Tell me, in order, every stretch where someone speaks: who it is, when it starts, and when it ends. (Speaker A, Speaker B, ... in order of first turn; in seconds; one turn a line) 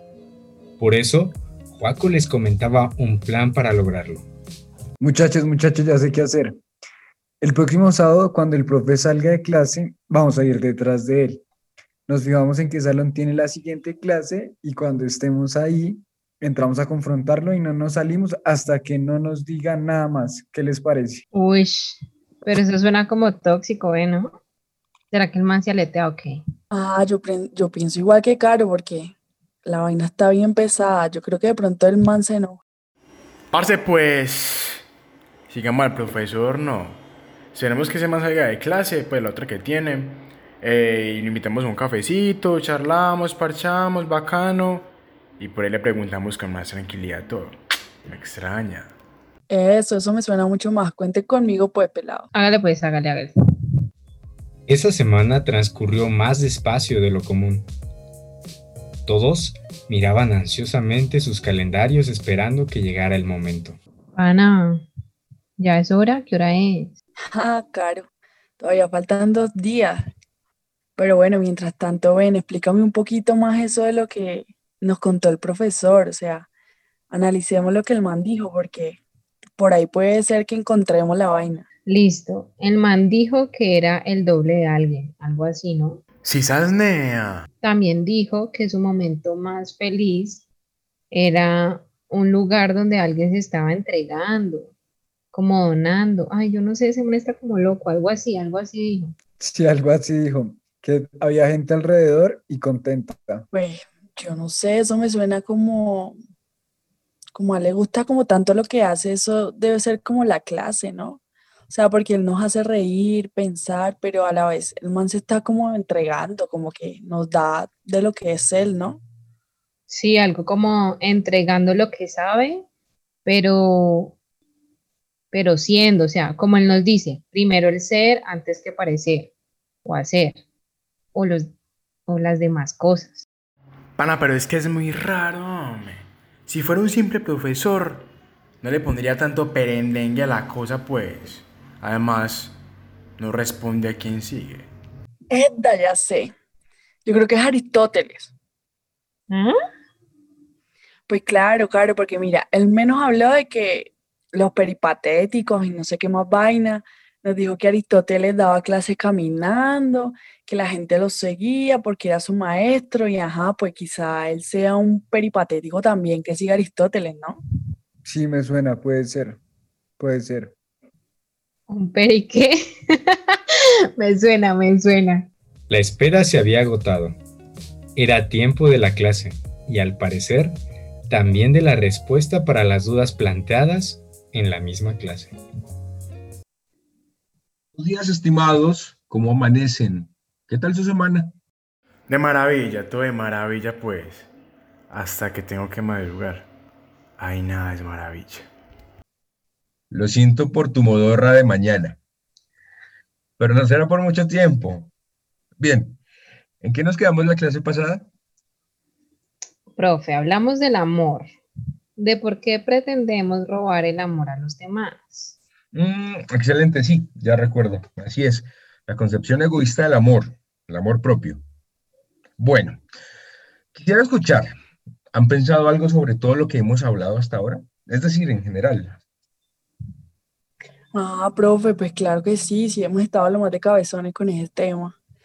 Speaker A: 0.8-4.3
Speaker B: 5.0-6.6
Speaker B: 7.4-11.4
Speaker B: 12.1-21.2
Speaker C: 21.3-24.4
Speaker C: 25.1-26.4
Speaker D: 26.7-29.1
Speaker D: 29.6-32.6
Speaker E: 33.5-34.8
Speaker E: 35.5-37.0
Speaker E: 37.5-48.9
Speaker D: 49.5-52.3
Speaker C: 52.3-53.3
Speaker A: 54.7-57.7
Speaker A: 59.0-63.8
Speaker C: 64.2-64.9
Speaker C: 65.6-66.9
Speaker D: 67.3-68.0
Speaker D: 68.6-70.0
Speaker D: 71.0-76.5
Speaker D: 77.1-79.0
Speaker D: 79.6-81.6
Speaker C: 81.8-86.0
Speaker E: 86.2-87.5
Speaker C: 87.6-90.4
Speaker C: 91.1-94.7
Speaker C: 95.3-99.1
Speaker B: 99.4-103.5
Speaker D: 103.5-106.1
Speaker D: 107.3-119.0
Speaker C: 119.9-122.7
Speaker C: 123.2-124.2
Speaker C: 125.3-129.3
Speaker C: 129.8-130.4
Speaker C: 131.1-131.5
Speaker C: 132.1-133.2
Speaker E: 133.9-138.1
Speaker E: 138.6-142.6
Speaker E: 143.2-144.7
Speaker D: 145.3-146.3
Speaker D: 147.0-148.3
Speaker D: 151.1-167.4
Speaker B: 168.0-169.4
Speaker B: 170.0-170.5
Speaker C: 171.7-173.4
Speaker C: 174.0-175.3
Speaker A: 175.7-177.2
Speaker A: 177.9-180.6
Speaker A: 181.1-185.3
Speaker F: 187.7-191.3
Speaker E: 192.1-194.3
Speaker E: 194.9-196.5
Speaker E: 197.2-198.5
Speaker F: 199.9-202.0
Speaker F: 203.4-204.9
Speaker F: 205.6-206.0
Speaker F: 206.6-208.1
Speaker C: 209.7-211.3
Speaker C: 212.0-215.3
Speaker F: 215.7-221.4
Speaker F: 222.4-222.8
Speaker F: 223.7-224.5
Speaker F: 225.1-229.0
Speaker D: 230.9-234.9